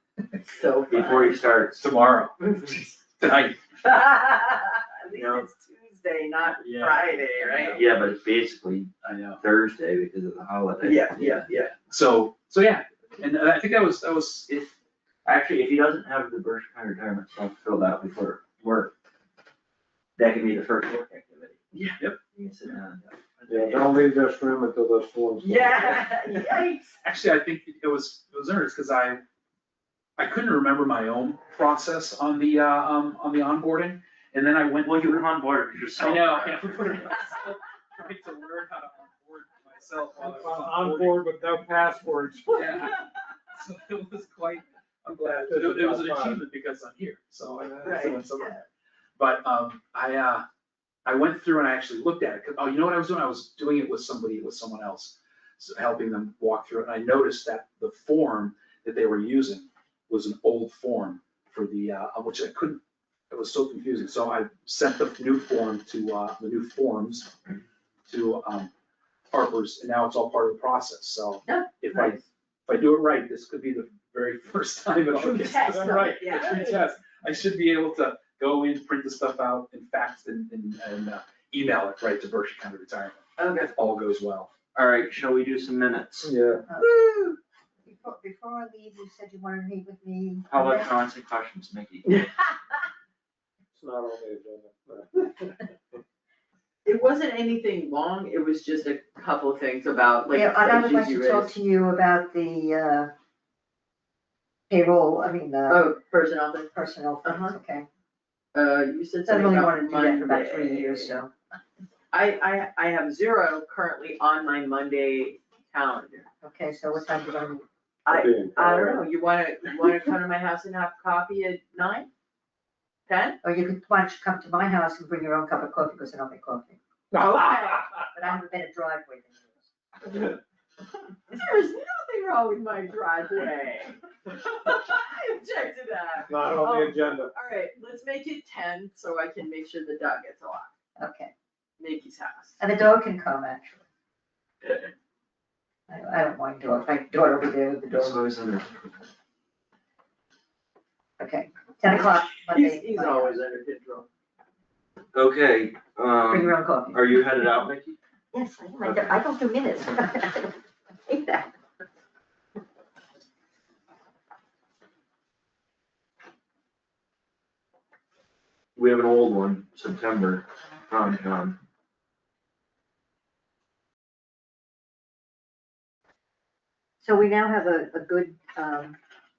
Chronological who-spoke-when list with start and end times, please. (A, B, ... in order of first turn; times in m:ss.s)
0:00.5-0:01.4 A
0:00.9-0:01.8 B
0:01.8-0:02.4 C
0:02.4-0:03.0 A
0:03.2-0:03.6 C
0:03.8-0:07.8 A
0:05.2-0:05.5 B
0:06.6-0:07.8 C
0:07.7-0:11.7 B
0:09.1-0:09.4 C
0:10.8-0:11.7 A
0:11.8-0:14.7 C
0:15.2-0:18.9 B
0:20.2-0:21.7 B
0:21.7-0:22.0 A
0:22.3-0:24.0 B
0:23.5-0:26.2 D
0:25.4-0:27.0 A
0:27.0-0:29.2 C
0:30.2-0:35.2 C
0:34.8-0:36.9 B
0:36.0-0:41.2 C
0:40.2-0:42.7 D
0:42.5-0:48.7 C
0:45.2-0:46.4 D
0:47.5-0:48.1 D
0:47.8-0:48.5 A
0:49.2-0:50.4 C
0:51.0-1:07.3 C
1:08.1-1:08.7 C
1:09.3-1:24.5 C
1:11.5-1:12.2 A
1:15.1-1:16.8 A
1:15.7-1:16.2 D
1:23.4-1:23.7 A
1:24.8-1:26.3 B
1:26.2-1:26.6 D
1:26.7-1:27.2 E
1:26.8-1:27.4 A
1:27.9-1:30.9 E
1:30.5-1:32.1 B
1:32.1-1:32.6 A
1:33.7-1:36.0 D
1:36.8-1:41.5 A
1:40.3-1:43.1 E
1:44.7-1:45.9 E
1:45.7-1:46.7 A
1:46.7-1:47.9 E
1:47.2-1:47.6 A
1:48.5-1:51.2 A
1:49.3-1:51.3 E
1:52.1-1:56.3 A
1:56.4-1:57.6 E
1:58.0-2:02.1 A
1:58.1-1:59.1 D
2:03.1-2:03.4 A
2:03.4-2:06.8 E
2:07.2-2:07.8 A
2:07.2-2:07.9 D
2:07.3-2:09.7 E
2:11.3-2:20.7 A
2:16.3-2:17.3 D
2:21.0-2:21.3 E
2:21.8-2:22.6 A
2:22.6-2:23.8 E
2:25.9-2:28.2 E
2:27.9-2:28.9 B
2:31.2-2:33.4 E
2:31.8-2:34.1 A
2:35.1-2:38.0 B
2:36.3-2:37.0 E
2:38.3-2:41.5 E
2:38.8-2:39.1 B
2:48.8-2:51.6 B
2:57.0-2:59.0 E